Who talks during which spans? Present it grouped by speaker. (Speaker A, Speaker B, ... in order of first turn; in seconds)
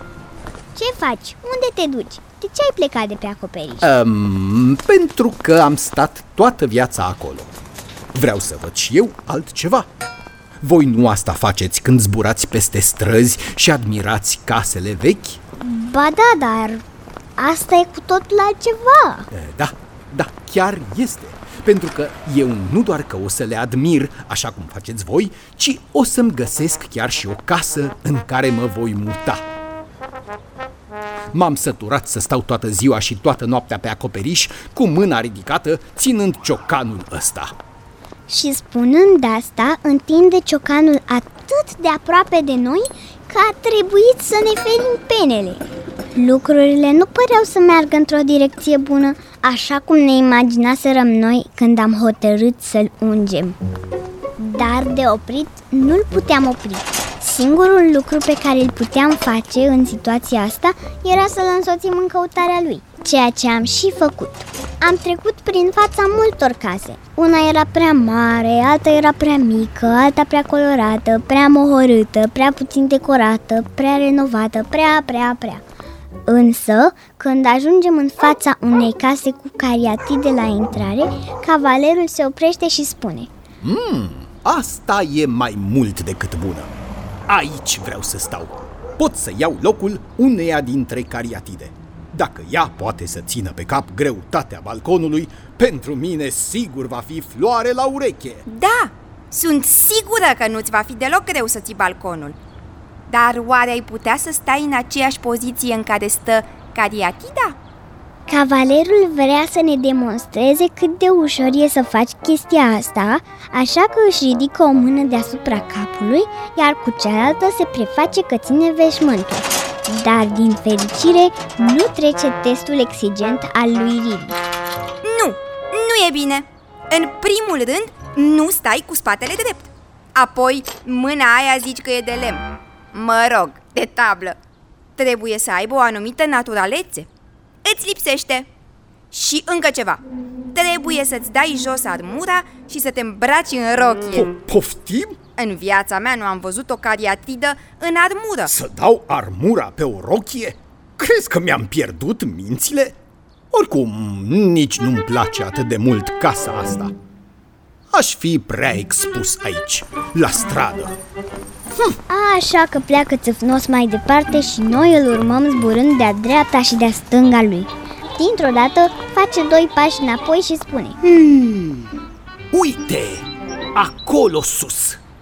Speaker A: 0.7-3.9, 15.6-16.8, 17.4-19.3, 38.3-45.6, 46.1-53.6, 54.4-75.6, 76.3-83.3, 108.3-124.4, 162.1-171.0
Speaker B: 3.8-7.5, 8.1-9.9, 10.6-15.4, 19.3-29.4, 31.3-37.5, 83.6-86.7, 87.3-98.4, 144.1-145.2, 148.5-153.0, 153.5-156.9, 157.9-161.0, 172.5-175.0
Speaker C: 98.5-102.3, 103.1-107.6, 125.0-134.3, 135.0-137.1, 137.6-138.5, 139.1-140.0, 140.5-144.3, 145.4-148.5